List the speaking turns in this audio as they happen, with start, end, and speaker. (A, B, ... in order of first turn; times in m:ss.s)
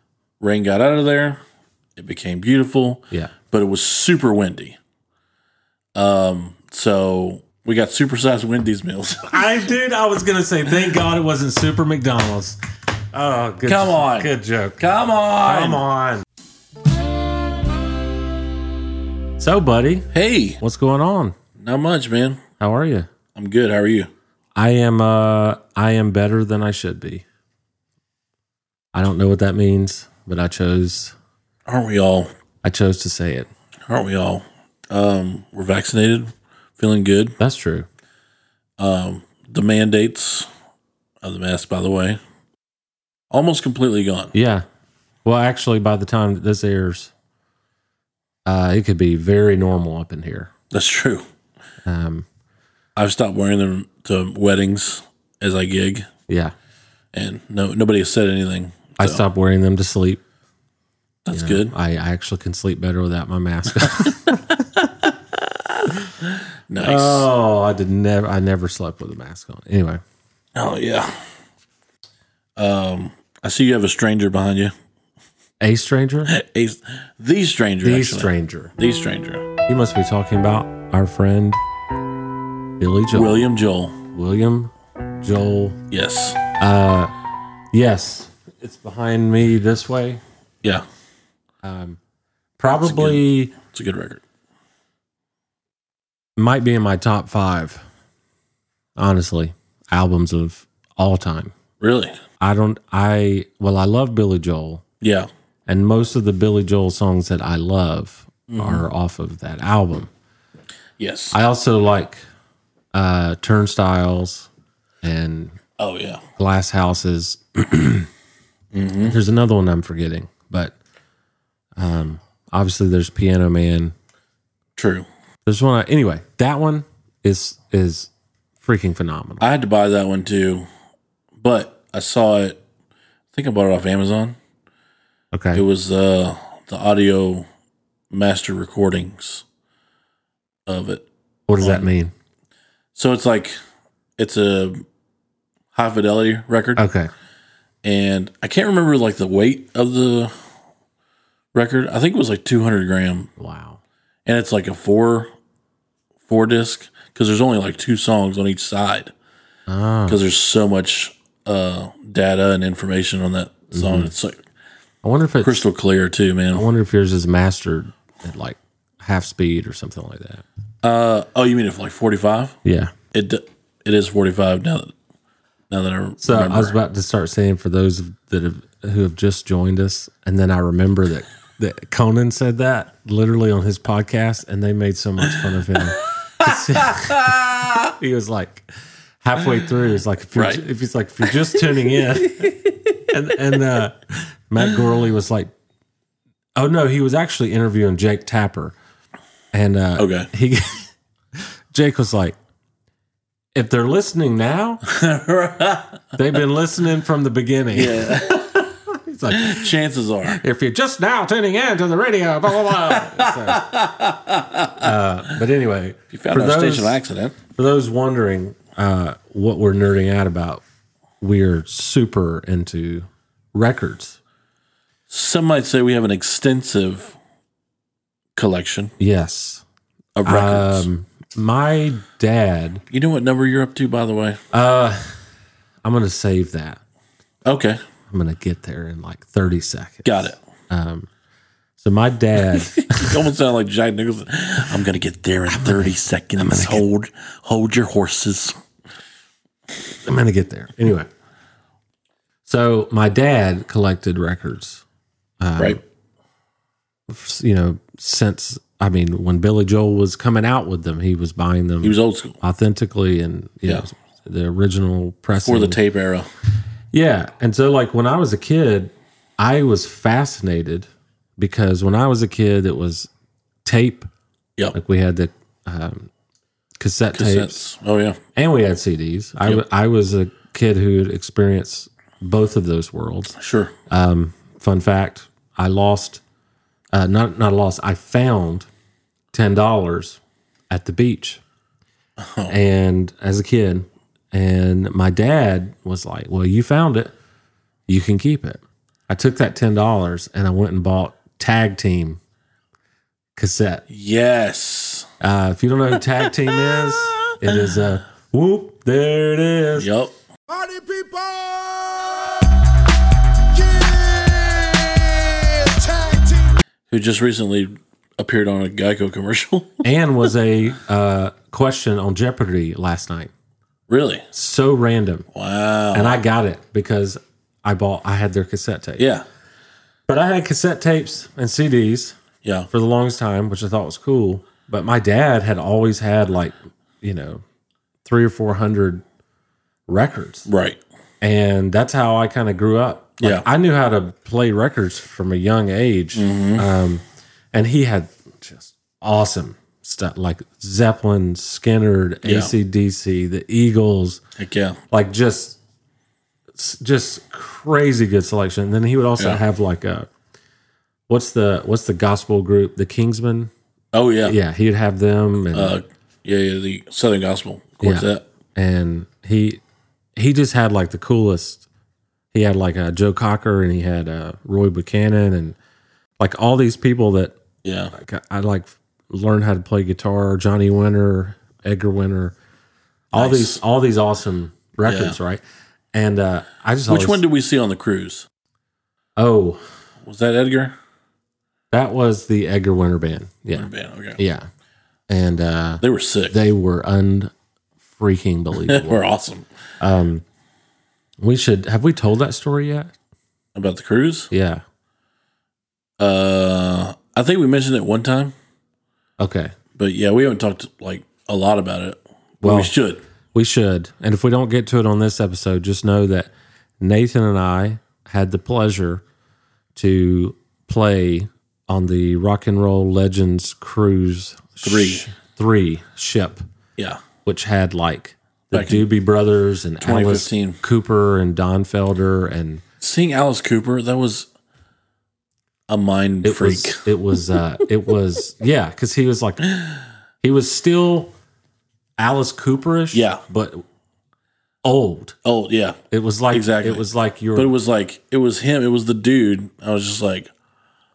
0:00.4-0:01.4 A
0:02.0-0:04.8 A
0:06.0-0:09.5 A
0:09.3-0:12.6 B
0:13.1-0:14.8 B
0:13.7-0:15.8 A
0:15.4-0:16.2 B
0:19.4-0:20.1 B
0:20.1-0:20.6 A
0:20.6-0:21.4 B
0:21.6-0:22.4 A
0:22.6-0:23.1 B
0:23.4-0:24.1 A
0:24.6-0:27.2 B
0:28.9-0:31.2 B
0:31.7-0:32.3 A
0:32.6-0:33.5 B
0:33.9-0:37.4 A
0:37.4-0:37.9 B
0:38.8-0:40.5 A
0:41.2-0:42.2 A
0:43.3-0:44.3 A
0:44.3-0:44.7 B
0:45.2-0:47.1 B
0:48.5-0:50.5 B
0:50.7-0:51.2 A
0:51.8-0:52.3 B
0:53.0-0:56.1 A
0:56.3-0:56.5 B
0:57.1-0:59.2 A
0:59.0-1:00.2 B
1:01.3-1:01.7 A
1:01.3-1:04.9 B
1:03.8-1:04.1 A
1:05.7-1:07.3 A
1:06.8-1:10.0 B
1:10.6-1:11.3 A
1:12.6-1:14.7 A
1:15.6-1:16.3 B
1:16.3-1:19.5 A
1:17.8-1:18.7 B
1:19.7-1:21.6 B
1:22.8-1:23.5 B
1:23.1-1:24.0 A
1:24.1-1:25.8 B
1:25.9-1:26.4 A
1:26.6-1:27.1 B
1:27.7-1:30.2 B
1:31.6-1:32.0 B
1:32.6-1:33.5 B
1:32.8-1:34.2 A
1:36.4-1:37.8 B
1:39.0-1:41.5 B
1:41.8-1:42.2 A
1:42.4-1:44.8 B
1:45.0-1:45.3 A
1:45.7-1:50.1 B
1:48.5-1:48.8 A
1:51.0-1:51.4 A
1:51.3-1:52.2 B
1:52.9-1:54.5 B
1:55.0-1:55.6 B
1:55.8-1:56.2 A
1:56.4-1:58.1 B
1:58.7-1:59.2 A
1:59.0-2:00.8 B
2:01.8-2:03.9 B
2:04.8-2:05.1 A
2:05.5-2:08.1 B
2:08.6-2:09.4 B
2:09.4-2:10.7 A
2:11.4-2:12.6 A
2:13.3-2:14.4 A
2:15.3-2:15.6 B
2:15.5-2:17.5 A
2:18.1-2:19.4 A
2:20.7-2:21.1 A
2:21.5-2:22.1 B
2:21.6-2:21.9 A
2:23.0-2:23.6 A
2:24.2-2:24.8 A
2:25.7-2:26.8 A
2:26.8-2:27.1 B
2:27.8-2:30.3 A
2:31.5-2:33.3 A
2:33.4-2:33.8 B
2:34.3-2:35.3 A
2:36.3-2:39.1 A
2:39.7-2:40.2 B
2:40.1-2:44.4 A
2:43.7-2:44.1 B
2:45.0-2:45.7 B
2:45.4-2:46.6 A
2:46.5-2:50.4 B
2:50.8-2:52.6 A
2:52.6-2:52.9 B
2:53.1-2:54.9 A
2:55.7-2:56.8 A
2:56.2-3:07.3 B
3:06.0-3:07.9 A
3:07.9-3:08.7 B
3:09.2-3:15.5 B
3:10.4-3:10.6 A
3:11.8-3:12.9 A
3:16.6-3:18.8 B
3:19.5-3:22.4 B
3:20.0-3:20.3 A
3:23.6-3:24.8 B
3:24.8-3:26.2 A
3:26.2-3:29.7 B
3:27.7-3:28.6 A
3:29.3-3:30.4 A
3:30.4-3:33.7 B
3:32.7-3:34.9 A
3:34.8-3:40.6 B
3:36.1-3:37.4 A
3:41.2-3:44.2 B
3:45.1-3:47.2 A
3:48.4-3:48.9 A
3:49.0-3:49.6 B
3:50.2-3:50.9 A
3:50.2-3:52.8 B
3:52.9-3:54.4 A
3:54.5-3:55.1 B
3:55.8-3:56.8 B
3:57.5-3:57.8 A
3:58.1-4:01.1 B
4:00.0-4:00.4 A
4:01.8-4:03.2 B
4:02.8-4:08.6 A
4:05.5-4:06.8 B
4:10.0-4:11.1 B
4:12.5-4:14.8 B
4:15.4-4:15.8 B
4:17.1-4:25.8 B
4:21.8-4:22.4 A
4:25.3-4:26.3 A
4:26.9-4:33.1 B
4:33.6-4:34.1 B
4:34.7-4:36.1 B
4:36.8-4:37.6 B
4:37.1-4:38.2 A
4:38.4-4:43.4 B
4:43.4-4:43.7 A
4:43.9-4:46.2 B
4:46.9-4:48.7 B
4:49.3-4:50.2 B
4:50.7-4:51.4 B
4:52.2-4:52.6 A
4:52.5-4:57.1 B
4:57.9-5:02.2 B
5:03.4-5:03.8 B
5:03.9-5:05.1 A
5:05.2-5:09.9 B
5:09.8-5:10.2 A
5:10.5-5:12.8 C
5:13.4-5:16.6 C
5:16.9-5:19.8 A
5:19.8-5:23.3 B
5:23.9-5:24.3 A
5:24.3-5:25.3 B
5:25.3-5:26.2 A
5:25.9-5:29.1 B
5:29.0-5:29.2 A
5:30.1-5:32.2 B
5:32.4-5:32.7 A
5:32.7-5:37.4 B
5:38.0-5:39.0 B
5:39.9-5:40.5 B
5:40.5-5:40.8 A
5:41.2-5:54.2 B
5:43.2-5:43.5 A
5:46.2-5:46.7 A
5:52.2-5:52.5 A
5:54.4-5:54.8 A
5:54.9-5:55.6 B
5:56.6-6:00.1 B
6:01.1-6:03.5 B
6:03.9-6:04.4 A
6:04.2-6:05.8 B
6:05.5-6:08.3 A
6:07.8-6:09.6 B
6:10.2-6:11.7 B
6:12.3-6:15.6 B
6:16.2-6:17.4 B
6:17.6-6:17.9 A
6:17.9-6:22.4 B
6:23.1-6:25.4 B
6:23.2-6:23.6 A
6:24.8-6:25.2 A
6:25.9-6:27.2 B
6:26.9-6:28.3 A
6:29.2-6:29.6 B
6:30.0-6:30.8 A
6:31.7-6:34.5 B
6:33.5-6:34.2 A
6:35.1-6:37.3 B
6:35.8-6:36.4 A
6:37.9-6:39.0 B
6:38.6-6:39.5 A
6:39.8-6:40.2 B
6:41.2-6:42.9 B
6:43.6-6:44.3 A
6:44.3-6:44.6 B
6:46.0-6:48.3 A
6:49.2-6:49.5 B
6:49.8-6:53.0 A
6:52.4-6:52.7 B
6:53.3-6:59.0 B
6:59.8-7:06.4 B
7:04.6-7:05.1 A
7:06.8-7:07.0 A
7:07.2-7:12.6 B
7:08.5-7:08.9 A
7:09.8-7:10.6 A
7:12.8-7:14.3 A
7:15.7-7:16.9 A
7:16.2-7:19.4 B
7:20.2-7:21.1 B
7:22.0-7:23.6 B
7:22.9-7:23.2 A
7:24.6-7:25.2 B
7:25.2-7:25.8 A
7:25.9-7:27.5 B
7:26.3-7:26.8 A
7:27.4-7:30.3 A